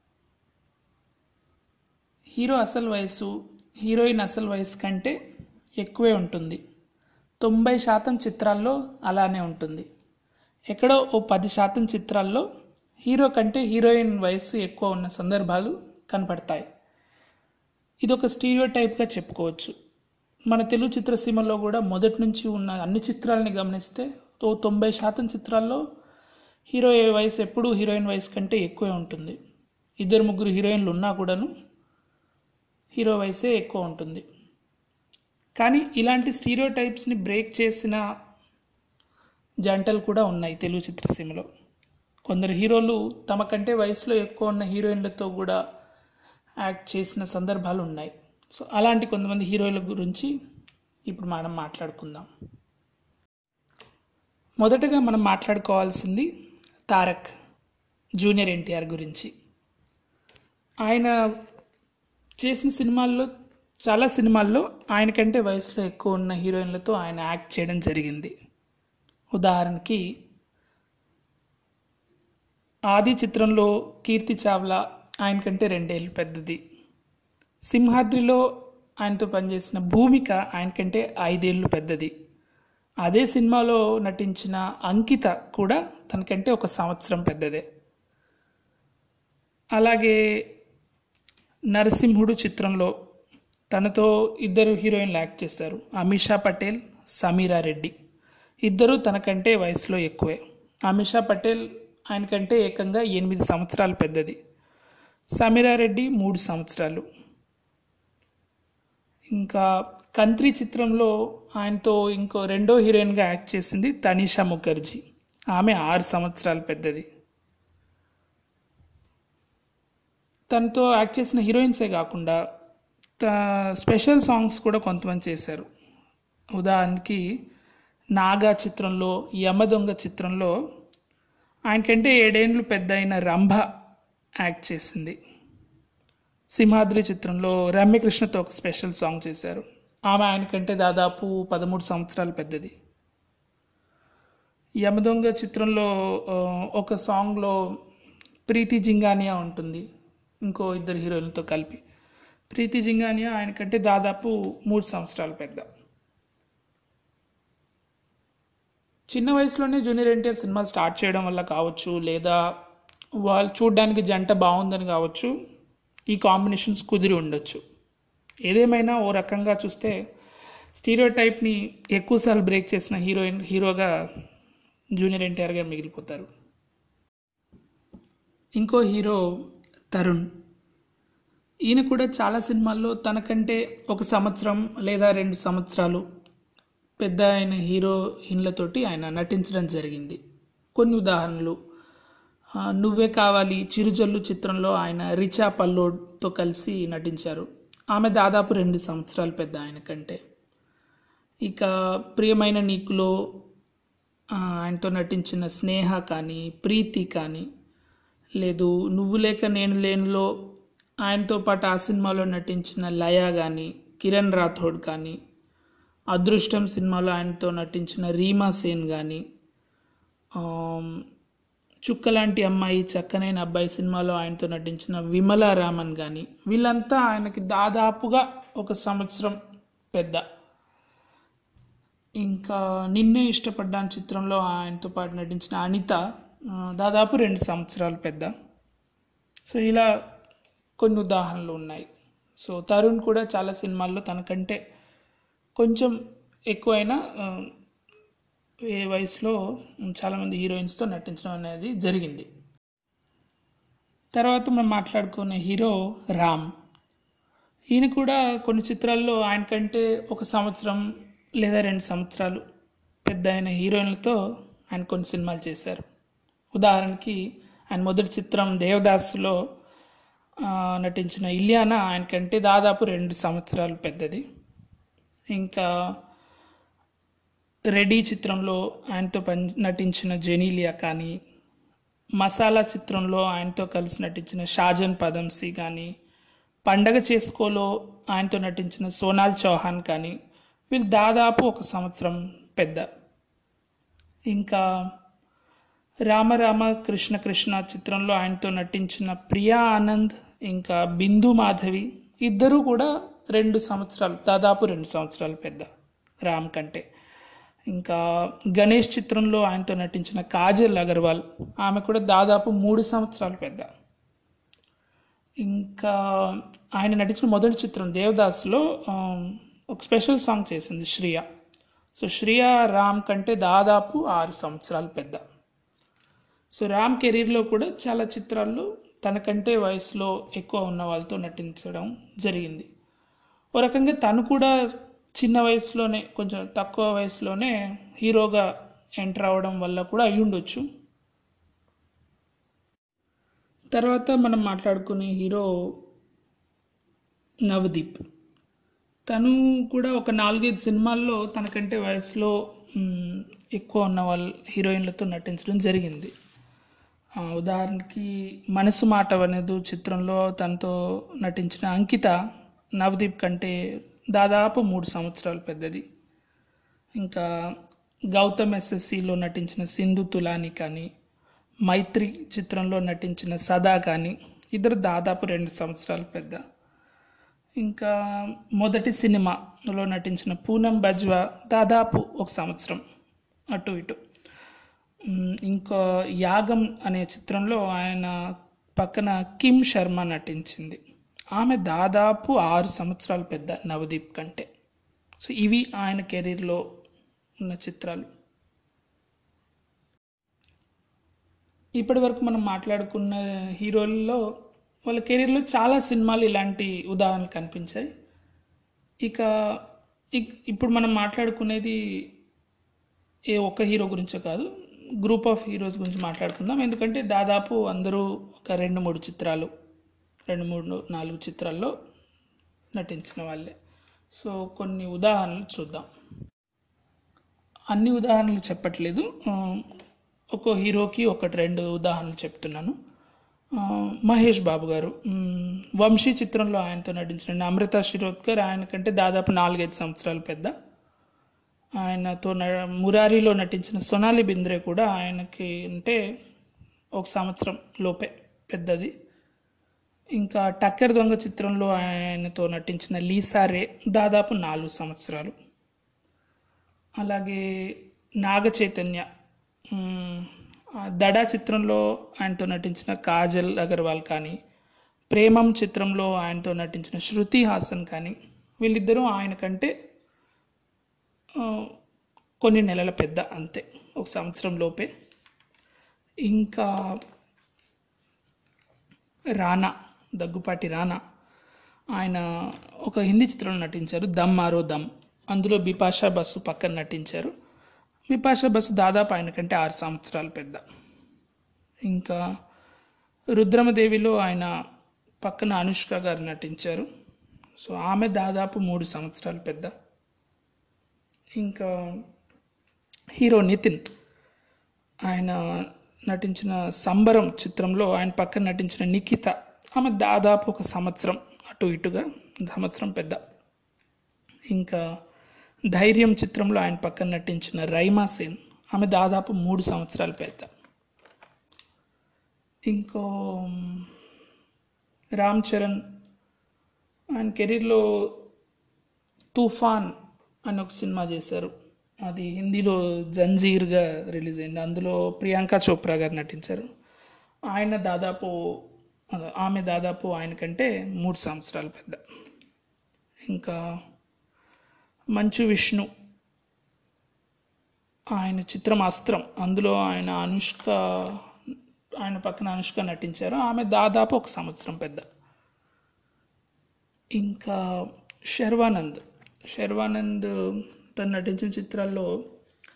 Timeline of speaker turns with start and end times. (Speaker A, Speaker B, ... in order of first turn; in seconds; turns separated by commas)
Speaker A: 2.4-3.3, Speaker A: 3.9-5.2, Speaker A: 5.8-6.6, Speaker A: 7.4-9.9, Speaker A: 10.7-12.4, Speaker A: 13.1-16.7, Speaker A: 18.0-19.7, Speaker A: 20.5-25.8, Speaker A: 26.7-29.4, Speaker A: 30.0-31.5, Speaker A: 33.0-34.2, Speaker A: 35.6-38.0, Speaker A: 39.7-41.5, Speaker A: 42.3-45.6, Speaker A: 46.6-50.3, Speaker A: 51.1-52.3, Speaker A: 54.6-56.3, Speaker A: 56.9-57.3, Speaker A: 58.2-59.3, Speaker A: 60.9-61.1, Speaker A: 62.4-63.3, Speaker A: 63.9-68.3, Speaker A: 69.3-70.0, Speaker A: 72.9-76.6, Speaker A: 77.7-78.4, Speaker A: 79.0-82.1, Speaker A: 83.0-87.6, Speaker A: 89.8-90.2, Speaker A: 91.7-92.9, Speaker A: 93.7-97.9, Speaker A: 98.7-104.4, Speaker A: 105.4-107.0, Speaker A: 109.3-109.6, Speaker A: 110.2-115.0, Speaker A: 115.5-117.1, Speaker A: 120.5-122.4, Speaker A: 123.2-125.7, Speaker A: 126.6-127.2, Speaker A: 128.2-130.5, Speaker A: 131.7-133.6, Speaker A: 134.4-135.2, Speaker A: 136.5-142.7, Speaker A: 144.8-147.6, Speaker A: 148.5-149.8, Speaker A: 150.4-151.8, Speaker A: 152.5-155.7, Speaker A: 159.1-162.4, Speaker A: 163.2-165.3, Speaker A: 166.1-167.6, Speaker A: 168.5-170.0, Speaker A: 170.8-173.9, Speaker A: 175.0-176.3, Speaker A: 178.6-179.2, Speaker A: 179.9-180.2, Speaker A: 181.7-186.0, Speaker A: 187.0-190.2, Speaker A: 190.8-191.6, Speaker A: 192.8-200.2, Speaker A: 201.4-203.1, Speaker A: 204.3-207.5, Speaker A: 208.4-210.3, Speaker A: 211.0-215.2, Speaker A: 216.1-219.2, Speaker A: 220.4-221.0, Speaker A: 221.9-229.4, Speaker A: 229.9-230.2, Speaker A: 232.2-236.0, Speaker A: 236.8-238.3, Speaker A: 239.5-239.9, Speaker A: 240.8-244.6, Speaker A: 245.6-245.9, Speaker A: 246.5-247.5, Speaker A: 248.7-252.3, Speaker A: 254.2-256.5, Speaker A: 257.7-260.8, Speaker A: 261.4-262.4, Speaker A: 263.1-264.2, Speaker A: 264.7-265.8, Speaker A: 266.5-267.2, Speaker A: 267.7-269.4, Speaker A: 270.4-274.2, Speaker A: 275.3-275.7, Speaker A: 277.7-281.1, Speaker A: 282.2-285.9, Speaker A: 286.7-290.1, Speaker A: 290.7-292.9, Speaker A: 294.3-294.6, Speaker A: 296.1-305.7, Speaker A: 306.3-306.8, Speaker A: 307.7-308.0, Speaker A: 308.6-313.7, Speaker A: 315.4-321.2, Speaker A: 322.0-325.2, Speaker A: 326.6-332.7, Speaker A: 333.6-334.5, Speaker A: 335.2-338.4, Speaker A: 339.0-340.6, Speaker A: 343.7-345.5, Speaker A: 347.5-348.0, Speaker A: 349.1-356.1, Speaker A: 357.2-362.1, Speaker A: 362.8-363.5, Speaker A: 364.1-365.8, Speaker A: 367.0-367.2, Speaker A: 368.1-370.9, Speaker A: 371.7-376.4, Speaker A: 377.6-377.9, Speaker A: 378.6-382.8, Speaker A: 383.5-384.0, Speaker A: 385.1-388.1, Speaker A: 388.8-390.8, Speaker A: 391.4-394.5, Speaker A: 395.2-396.6, Speaker A: 397.4-398.1, Speaker A: 401.8-404.2, Speaker A: 404.9-407.9, Speaker A: 410.1-411.8, Speaker A: 413.3-414.5, Speaker A: 415.0-419.5, Speaker A: 420.3-421.7, Speaker A: 422.8-423.5, Speaker A: 424.1-425.9, Speaker A: 427.7-429.6, Speaker A: 430.3-432.8, Speaker A: 433.6-440.5, Speaker A: 441.8-446.0, Speaker A: 447.0-448.9, Speaker A: 450.2-455.3, Speaker A: 457.0-459.1, Speaker A: 459.7-464.4, Speaker A: 465.1-469.7, Speaker A: 471.4-471.7, Speaker A: 472.4-474.9, Speaker A: 476.3-476.7, Speaker A: 479.4-481.0, Speaker A: 482.0-482.2, Speaker A: 482.8-487.3, Speaker A: 488.1-490.6, Speaker A: 491.9-492.2, Speaker A: 493.4-494.5, Speaker A: 495.2-496.9, Speaker A: 497.6-499.7, Speaker A: 501.4-501.7, Speaker A: 503.2-503.8, Speaker A: 505.1-505.4, Speaker A: 506.1-513.2, Speaker A: 514.5-514.8, Speaker A: 515.7-520.5, Speaker A: 522.7-523.9, Speaker A: 525.2-525.8, Speaker A: 527.2-528.2, Speaker A: 529.3-529.9, Speaker A: 530.5-531.5, Speaker A: 532.0-536.7, Speaker A: 537.5-538.3, Speaker A: 539.1-542.0, Speaker A: 543.3-543.6, Speaker A: 545.2-545.9, Speaker A: 548.2-551.2, Speaker A: 552.0-555.0, Speaker A: 557.2-557.6, Speaker A: 558.3-560.3, Speaker A: 561.0-562.1